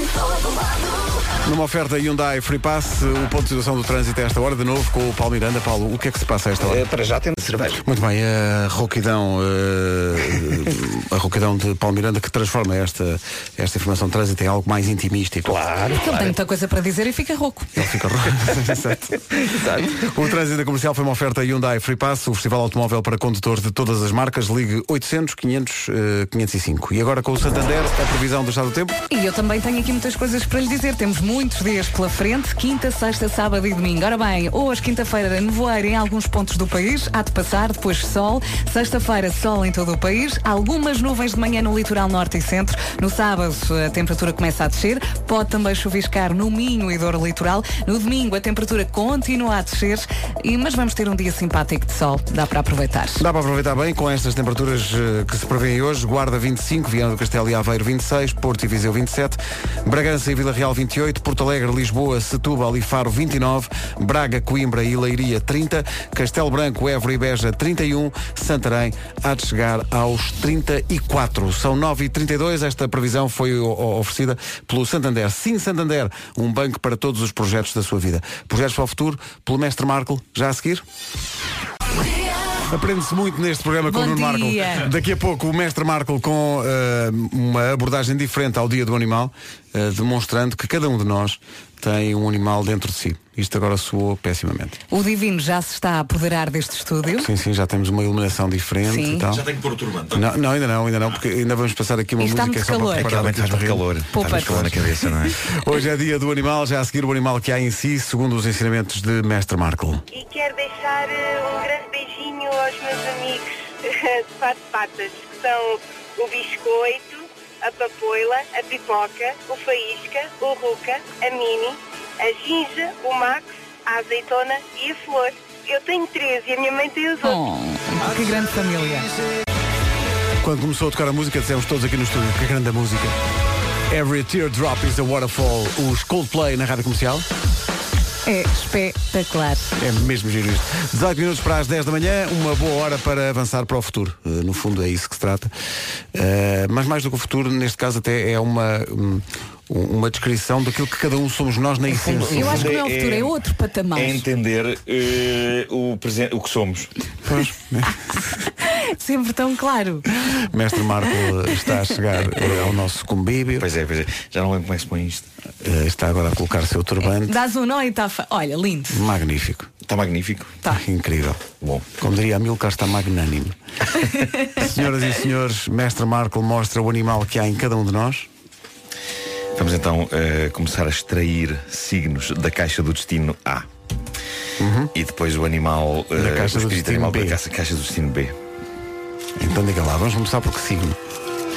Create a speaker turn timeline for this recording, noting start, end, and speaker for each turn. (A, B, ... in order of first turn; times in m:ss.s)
0:01.4-0:06.8 A
0:06.6-0:07.8 B
0:07.8-0:15.6 A
0:15.6-0:16.2 B
0:15.9-0:17.7 C
0:17.7-0:19.3 A
0:19.5-0:19.9 B
0:19.8-0:29.0 A
0:29.1-0:53.2 C
0:53.2-1:20.8 A
1:22.7-1:34.8 A
1:23.9-1:24.9 C
1:34.9-1:37.3 C
1:37.2-1:39.4 A
1:38.9-1:39.2 C
1:39.3-1:40.3 D
1:40.1-1:44.7 A
1:42.2-1:43.1 C
1:42.9-1:45.4 D
1:44.1-1:45.2 C
1:45.5-1:50.0 A
1:50.1-2:07.4 E
2:07.2-2:09.1 C
2:10.4-2:13.2 A
2:13.9-2:17.2 A
2:18.2-2:19.7 C
2:19.8-2:25.5 A
2:26.1-2:32.7 A
2:32.0-2:33.3 D
2:32.1-2:34.2 C
2:33.9-2:36.9 D
2:37.2-2:38.0 A
2:38.6-2:40.1 C
2:40.2-2:43.6 A
2:42.4-2:42.8 D
2:43.6-2:45.2 D
2:45.6-2:47.4 A
2:47.0-2:49.0 C
2:48.9-2:49.7 A
2:49.8-2:50.6 D
2:50.6-2:51.4 A
2:51.6-2:51.9 D
2:52.0-2:53.6 A
2:54.6-2:58.3 A
2:59.6-3:03.6 D
3:04.6-3:04.9 A
3:04.9-3:08.3 D
3:06.1-3:07.4 A
3:09.4-3:11.0 A